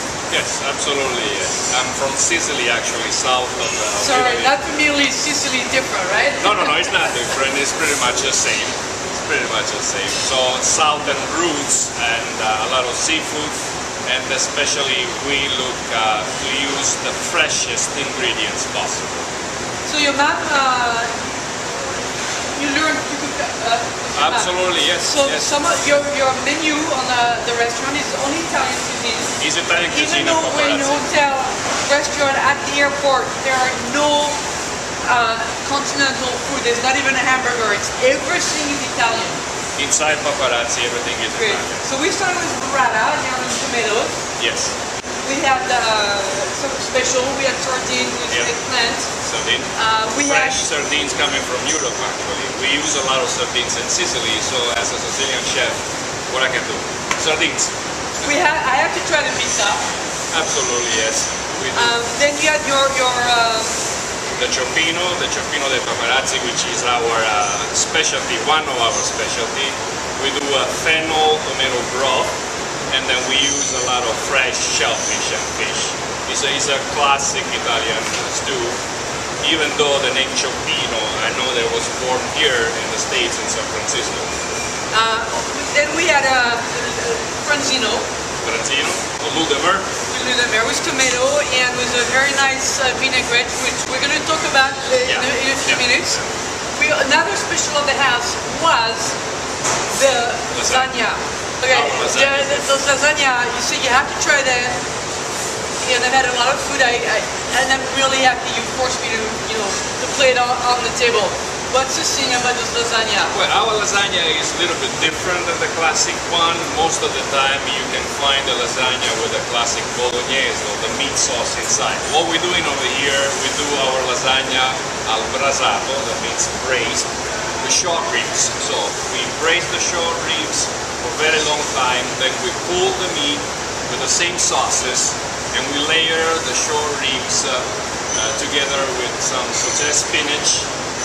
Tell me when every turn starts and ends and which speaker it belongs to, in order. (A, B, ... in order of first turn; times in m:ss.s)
0:00.3-0:04.5 A
0:04.0-0:07.1 B
0:06.4-0:13.5 A
0:14.1-0:19.2 A
0:19.9-0:21.1 B
0:22.5-0:29.3 B
0:24.2-0:25.5 A
0:29.4-0:31.0 A
0:29.9-0:34.4 B
0:35.0-0:39.4 B
0:39.8-0:41.8 A
0:41.4-0:44.2 B
0:44.4-0:44.8 A
0:45.2-0:49.1 B
0:49.2-0:57.7 A
0:49.7-0:50.6 B
0:58.2-0:59.8 B
1:00.3-1:02.0 A
1:01.7-1:03.8 B
1:04.4-1:12.3 A
1:12.9-1:18.8 A
1:19.4-1:24.3 A
1:24.9-1:28.1 B
1:28.4-1:29.9 A
1:30.1-1:36.2 B
1:35.1-1:36.3 A
1:36.8-1:39.2 B
1:39.9-1:44.8 B
1:40.5-1:40.9 A
1:41.7-1:42.7 A
1:45.8-1:53.3 B
1:53.3-2:07.1 A
2:07.6-2:17.6 A
2:18.1-2:20.7 A